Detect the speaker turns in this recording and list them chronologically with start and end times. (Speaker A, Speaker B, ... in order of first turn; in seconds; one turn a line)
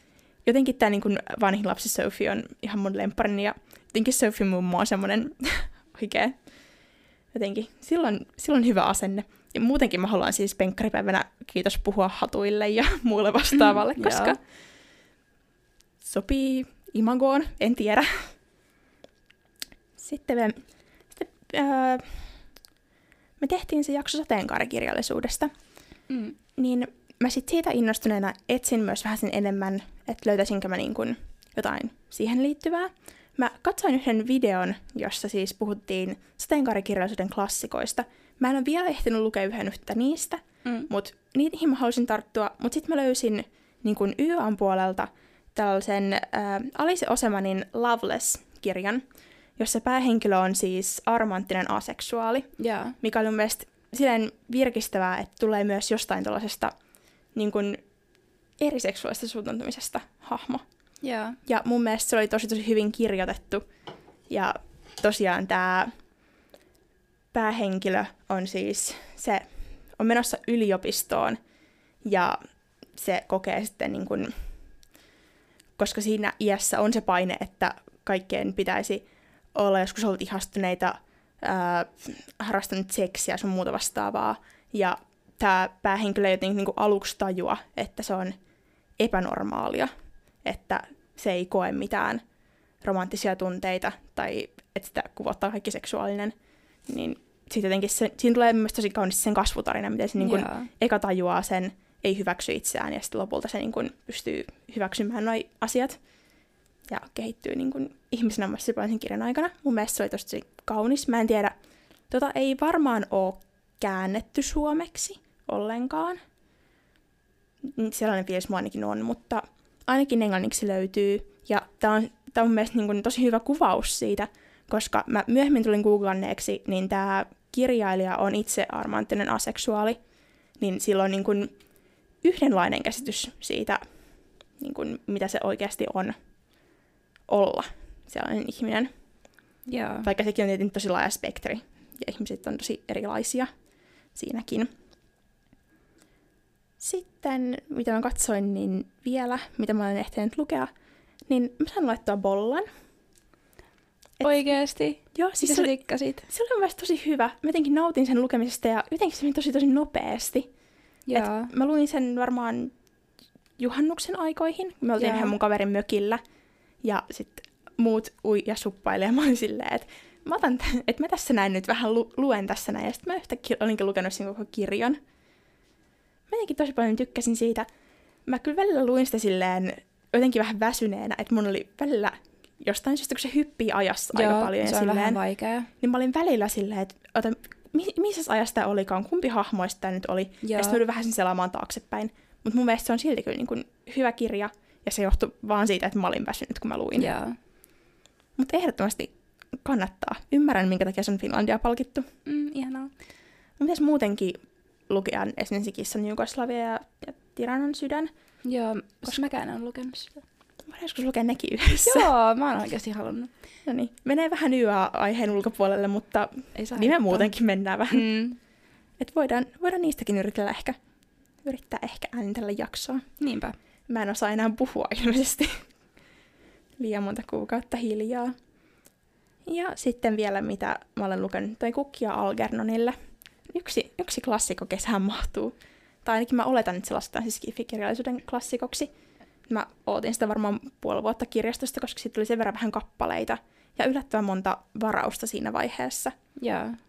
Speaker A: 0.4-6.4
Speaker A: 7.3-14.4
Speaker B: 13.6-14.3
Speaker A: 16.0-18.3
Speaker A: 20.0-22.4
Speaker A: 23.4-25.5
Speaker B: 26.1-26.4
Speaker A: 26.6-49.0
Speaker A: 49.6-56.7
Speaker B: 52.6-53.0
Speaker A: 57.3-57.8
Speaker A: 58.6-60.6
Speaker B: 61.0-61.4
Speaker A: 61.4-63.6
Speaker A: 64.3-65.9
Speaker A: 67.3-71.4
Speaker A: 72.0-72.4
Speaker A: 72.9-74.3
Speaker A: 75.8-88.4
Speaker A: 89.0-89.9
Speaker A: 90.4-92.2
Speaker A: 92.8-106.0
Speaker B: 100.2-100.7
Speaker A: 106.9-111.5
Speaker A: 112.1-116.2
Speaker A: 117.6-130.0
Speaker A: 130.6-131.5
Speaker A: 132.2-133.8
Speaker A: 134.6-136.2
Speaker A: 137.3-138.9
Speaker B: 139.7-140.1
Speaker A: 140.0-143.5
Speaker A: 144.1-144.7
Speaker A: 146.8-150.7
Speaker A: 151.3-152.7
Speaker B: 154.2-156.3
Speaker A: 155.1-160.5
Speaker B: 161.1-161.5
Speaker A: 161.1-162.7
Speaker A: 163.6-166.2
Speaker B: 165.0-165.3
Speaker A: 166.8-175.0
Speaker A: 176.3-177.7
Speaker A: 178.2-185.2
Speaker B: 184.1-185.7
Speaker A: 185.8-197.1
Speaker B: 190.4-190.8
Speaker B: 197.0-197.4
Speaker A: 198.4-202.1
Speaker B: 202.2-202.9
Speaker A: 203.6-208.1
Speaker B: 208.4-210.2
Speaker A: 210.7-212.1
Speaker B: 211.8-213.3
Speaker A: 213.6-218.1
Speaker B: 216.5-217.3
Speaker B: 217.9-218.4
Speaker A: 219.0-220.8
Speaker A: 221.4-223.1
Speaker B: 223.2-223.6
Speaker A: 223.9-225.7
Speaker A: 226.8-228.3
Speaker A: 229.5-233.0
Speaker A: 233.5-238.9
Speaker A: 239.5-246.1
Speaker B: 246.4-246.8